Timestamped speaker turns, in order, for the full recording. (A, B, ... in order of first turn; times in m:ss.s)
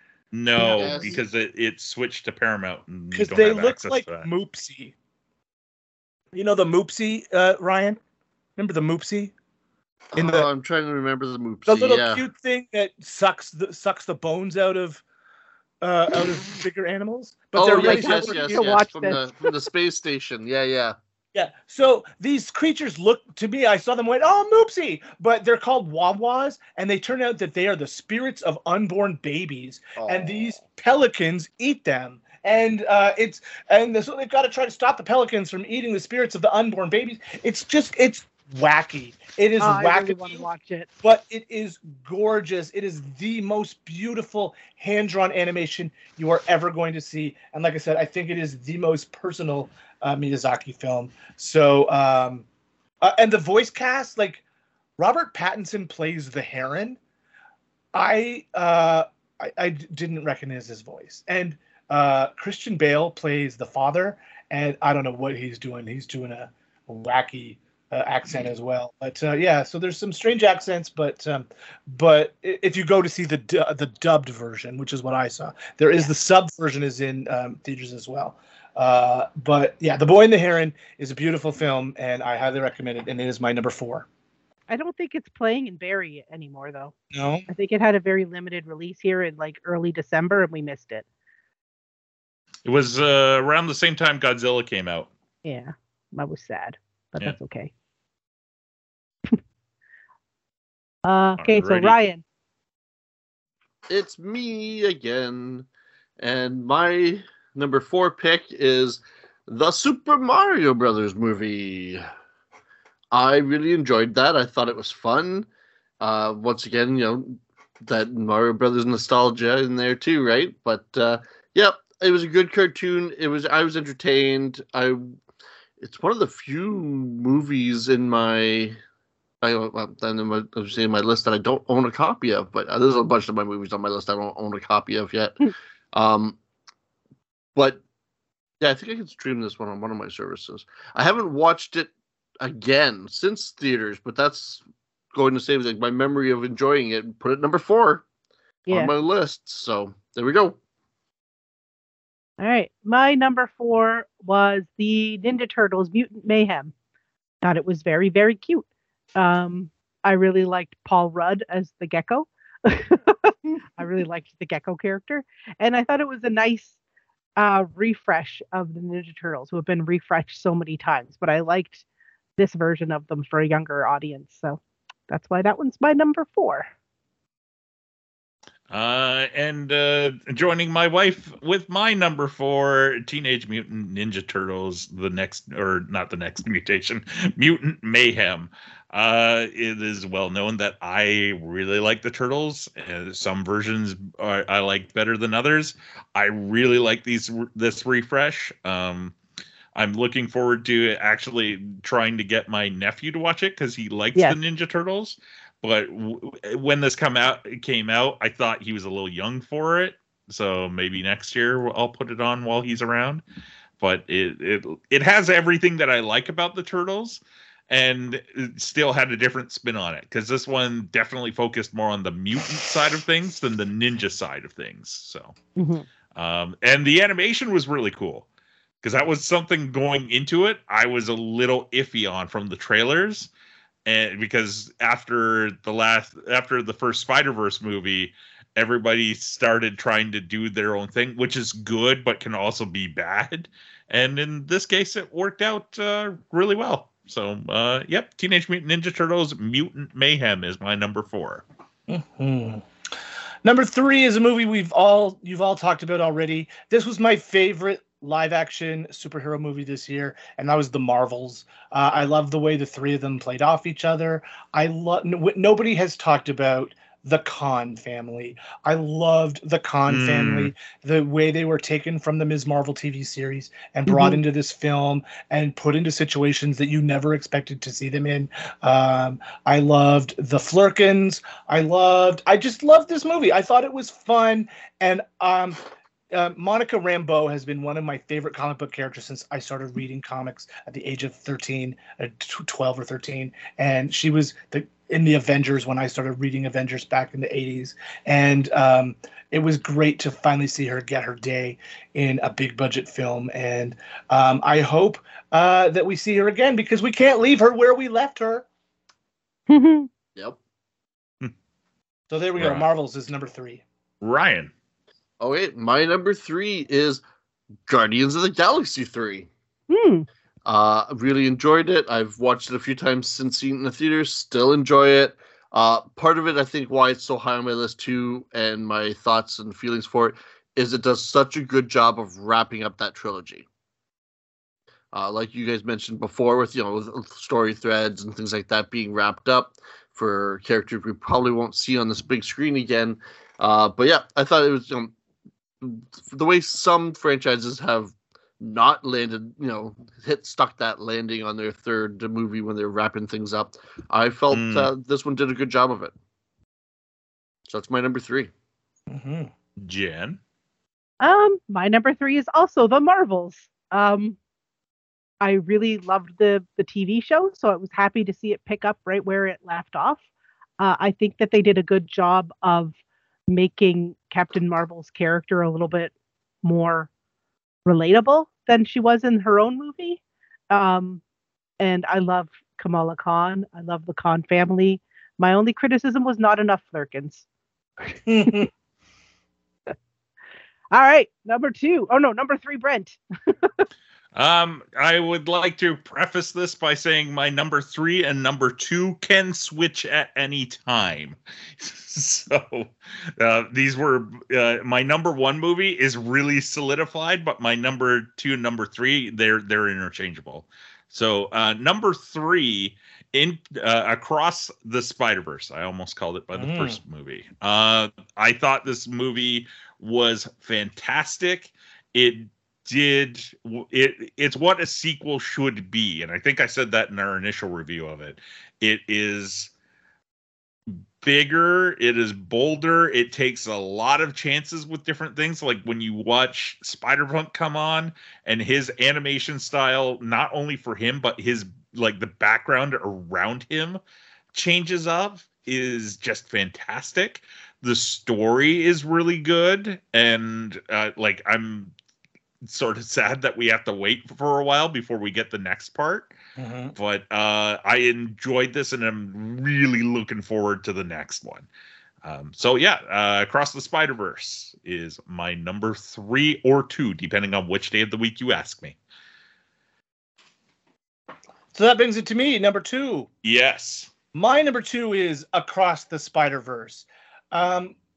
0:00.3-0:04.3 A
0:00.6-0:01.1 B
0:00.7-0:01.2 C
0:03.1-0:04.9 B
0:06.3-0:08.0 B
0:08.6-0:09.3 B
0:10.1-0:12.2 C
0:10.2-0:10.5 B
0:11.7-0:15.0 B
0:15.8-0:19.2 B
0:17.5-0:21.0 C
0:17.7-0:19.2 D
0:21.3-0:40.4 B
0:30.0-0:30.6 C
0:39.6-0:40.9 D
0:41.0-0:52.4 B
0:53.0-0:54.4 B
0:55.0-0:57.0 B
0:57.9-1:24.1 B
1:24.7-1:26.9 D
1:27.1-1:27.5 B
1:27.5-1:31.0 D
1:32.6-1:35.1 A
1:35.4-1:37.7 D
1:41.0-1:42.2 D
1:41.4-1:41.9 A
1:43.9-1:45.7 C
1:46.2-1:52.0 C
1:53.1-1:55.5 C
1:56.0-2:05.1 C
2:05.8-2:08.8 C
2:09.4-2:16.4 C
2:17.5-2:17.8 C
2:18.6-2:28.0 C
2:28.7-2:28.9 D
2:28.7-2:30.6 C
2:32.4-2:36.7 D
2:37.4-2:46.8 D
2:47.4-2:51.8 D
2:52.4-2:56.7 D
2:58.7-3:19.1 A
3:19.7-3:33.2 A
3:33.8-3:45.3 A
3:45.6-3:45.8 D
3:46.1-3:48.2 A
3:48.8-3:53.3 A
3:53.8-4:11.4 A
4:11.9-4:12.6 B
4:13.4-4:45.6 B
4:29.9-4:30.5 A
4:33.9-4:34.2 D
4:46.1-5:08.4 B
5:09.5-5:09.9 D
5:12.1-5:13.6 B
5:12.4-5:12.6 A
5:14.0-5:14.5 A
5:15.2-5:17.0 C
5:17.7-5:19.3 C
5:19.7-5:20.1 D
5:20.4-5:33.4 C
5:34.9-5:44.9 C
5:45.6-5:55.9 C
5:54.3-5:54.7 A
5:57.5-5:58.3 C
5:58.9-5:59.3 B
5:59.6-6:00.2 A
6:01.0-6:04.2 D
6:05.2-6:10.0 D
6:10.6-6:12.8 D
6:13.3-6:16.9 D
6:17.6-6:21.0 D
6:21.6-6:27.2 D
6:28.1-6:28.5 B
6:30.7-6:33.6 D
6:34.1-7:09.5 A
6:56.3-6:56.8 B
7:10.7-7:23.8 A
7:24.3-7:31.7 A
7:32.4-7:36.1 A
7:36.4-7:36.7 B
7:36.8-7:41.5 A
7:42.0-7:48.8 A
7:51.5-7:53.1 B
7:53.2-7:53.9 A
7:54.1-7:57.8 B